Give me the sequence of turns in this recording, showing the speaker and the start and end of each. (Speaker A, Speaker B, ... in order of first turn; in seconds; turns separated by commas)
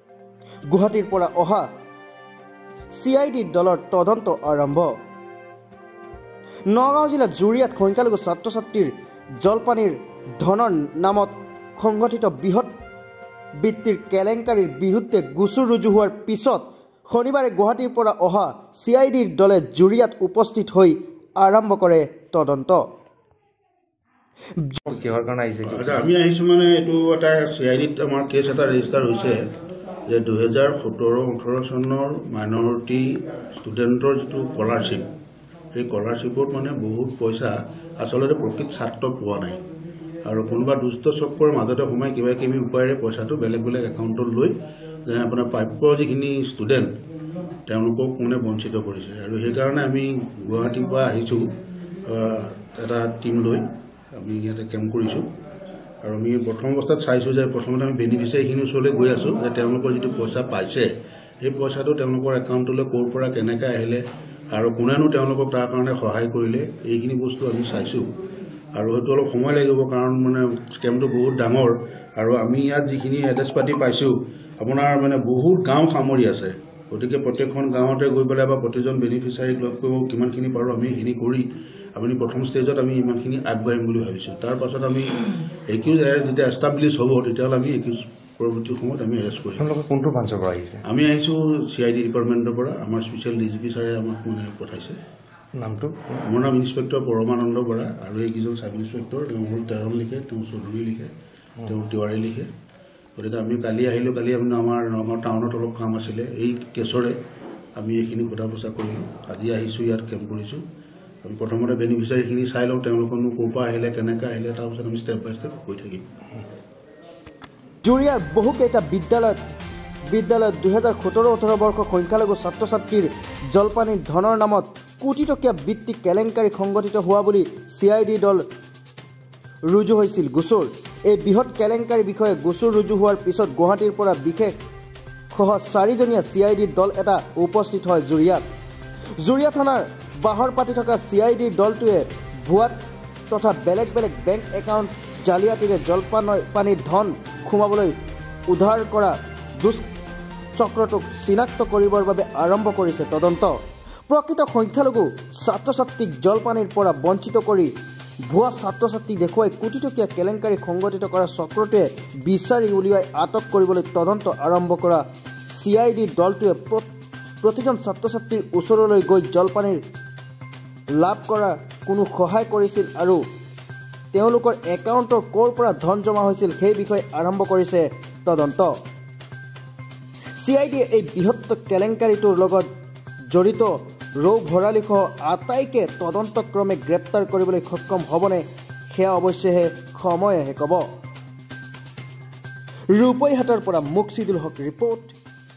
Speaker A: 0.7-1.7, Speaker A: 2.9-5.0, Speaker A: 6.7-12.7, Speaker A: 13.6-22.9, Speaker B: 24.8-26.0, Speaker C: 25.7-29.4, Speaker C: 30.1-35.1, Speaker C: 35.7-39.6, Speaker C: 40.2-44.5, Speaker C: 45.1-47.0, Speaker C: 47.7-51.5, Speaker C: 52.0-55.3, Speaker C: 56.0-60.9, Speaker C: 61.4-68.1, Speaker C: 68.8-89.7, Speaker B: 89.6-90.8, Speaker C: 90.8-95.0, Speaker B: 95.5-96.2, Speaker C: 96.2-101.1, Speaker C: 101.7-102.5, Speaker C: 103.2-107.2, Speaker C: 107.8-110.6, Speaker C: 111.2-116.1, Speaker A: 117.8-119.4, Speaker A: 120.1-128.5, Speaker A: 129.7-134.6, Speaker A: 135.3-138.4, Speaker A: 139.2-147.9, Speaker A: 148.5-149.9, Speaker A: 150.6-157.7, Speaker A: 158.2-169.8, Speaker A: 171.0-173.2, Speaker A: 174.1-178.8, Speaker A: 180.4-182.7, Speaker A: 183.3-190.9, Speaker A: 192.9-195.2